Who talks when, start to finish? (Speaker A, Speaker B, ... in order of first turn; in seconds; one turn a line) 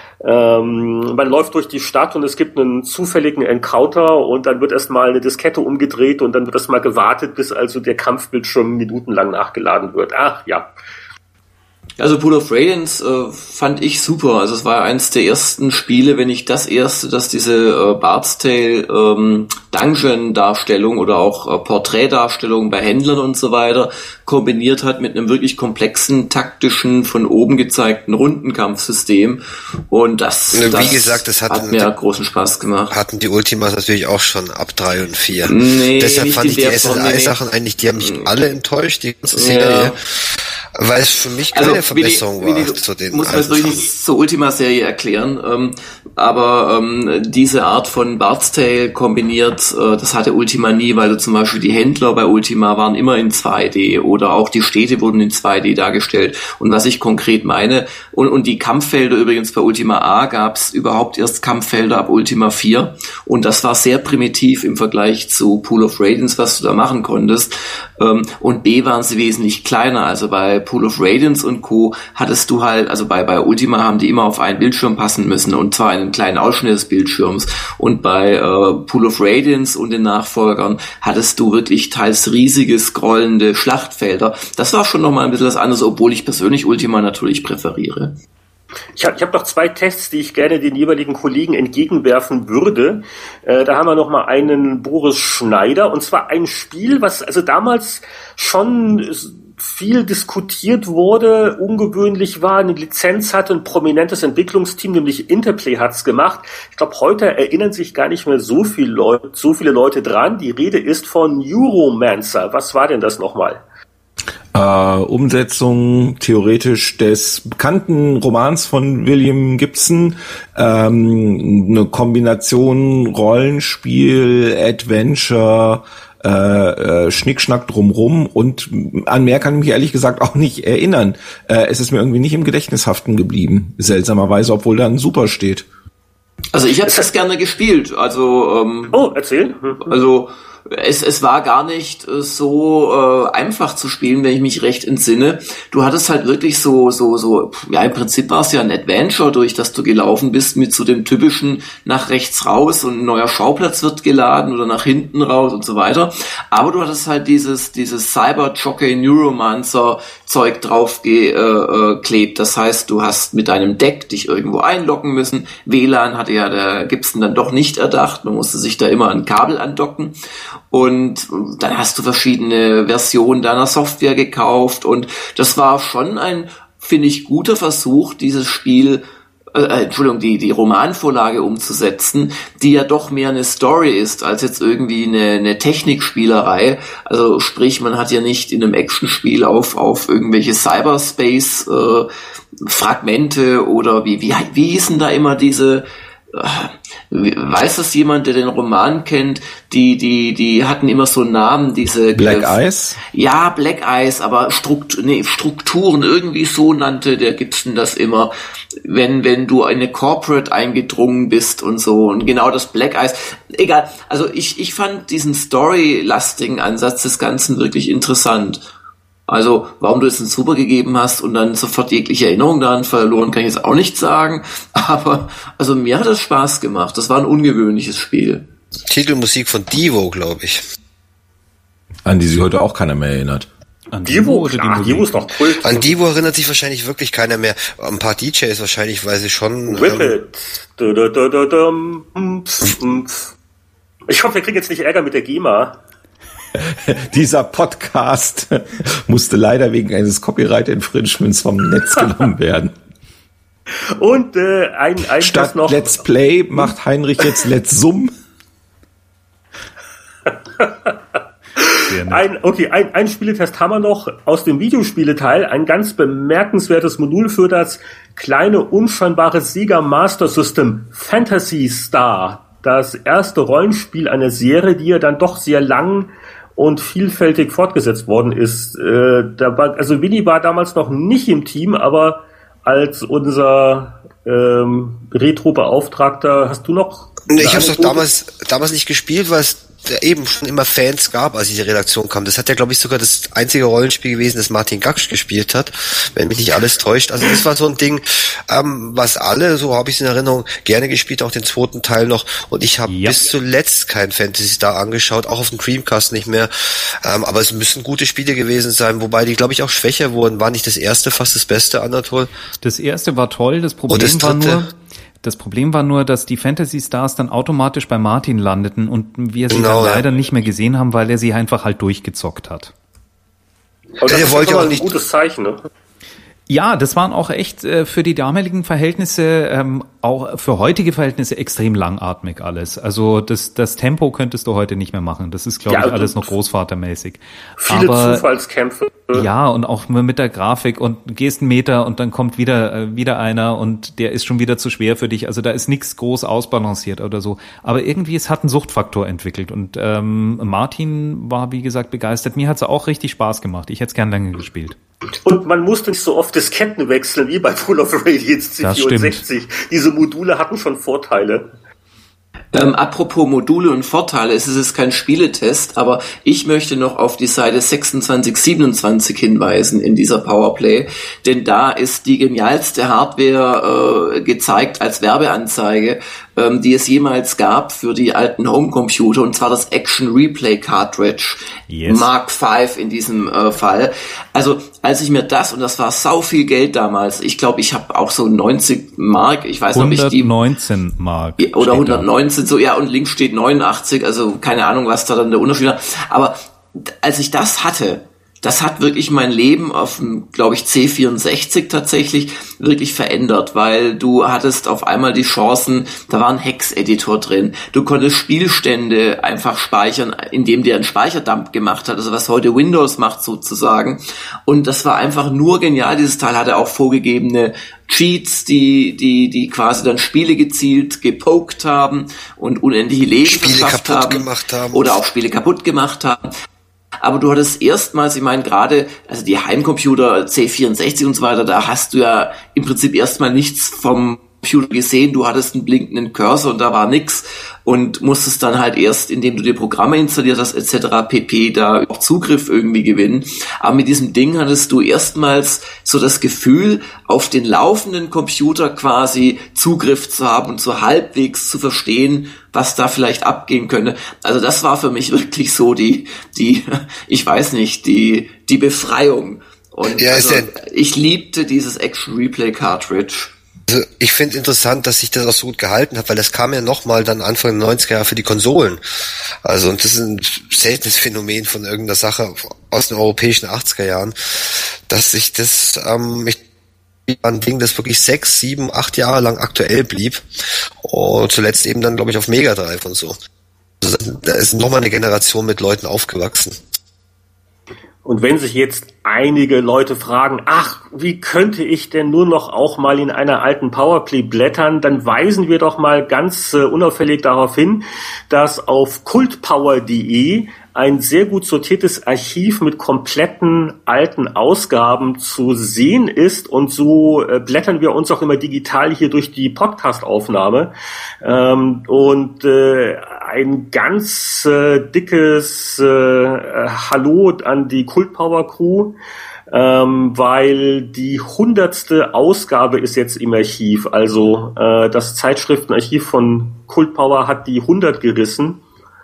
Speaker A: 0.2-10.7
Speaker B: 12.0-32.9
Speaker C: 30.5-31.9
Speaker C: 32.9-40.0
Speaker B: 35.4-37.4
Speaker B: 39.3-40.0
Speaker C: 40.8-43.8
Speaker B: 41.5-88.1
Speaker A: 89.0-113.6
Speaker D: 114.5-135.7
Speaker B: 136.5-139.0
Speaker A: 138.9-139.8
Speaker B: 139.8-170.1
Speaker B: 170.7-192.1
Speaker B: 192.6-202.6
Speaker D: 202.1-203.0
Speaker B: 203.1-208.3
Speaker B: 208.8-218.6
Speaker B: 219.3-228.5
Speaker C: 228.9-230.6
Speaker D: 232.0-233.5
Speaker E: 233.9-235.2
Speaker A: 234.0-235.9
Speaker C: 235.6-240.1
Speaker A: 239.7-243.3
Speaker A: 244.1-245.8
Speaker D: 246.6-252.7
Speaker A: 254.0-256.0
Speaker D: 255.2-258.1
Speaker A: 260.3-260.9
Speaker A: 261.6-288.0
Speaker E: 261.9-262.2
Speaker C: 287.3-306.5
Speaker E: 302.9-303.2
Speaker C: 307.0-312.3
Speaker E: 312.6-322.7
Speaker C: 313.9-314.7
Speaker C: 319.5-320.0
Speaker C: 324.0-324.9
Speaker A: 324.0-325.6
Speaker E: 326.5-338.2
Speaker A: 335.7-336.3
Speaker A: 337.6-339.3
Speaker E: 339.1-354.8
Speaker A: 355.2-361.5
Speaker E: 358.6-359.2
Speaker B: 362.5-390.3
Speaker E: 381.7-382.1
Speaker E: 389.7-392.1
Speaker B: 391.4-426.3
Speaker C: 423.2-424.9
Speaker B: 427.0-463.3
Speaker C: 459.9-460.5
Speaker C: 463.7-468.8
Speaker C: 469.4-476.4
Speaker C: 477.1-480.2
Speaker C: 480.8-483.2
Speaker C: 483.8-486.6
Speaker A: 488.0-510.7
Speaker A: 511.2-518.9
Speaker A: 519.5-528.6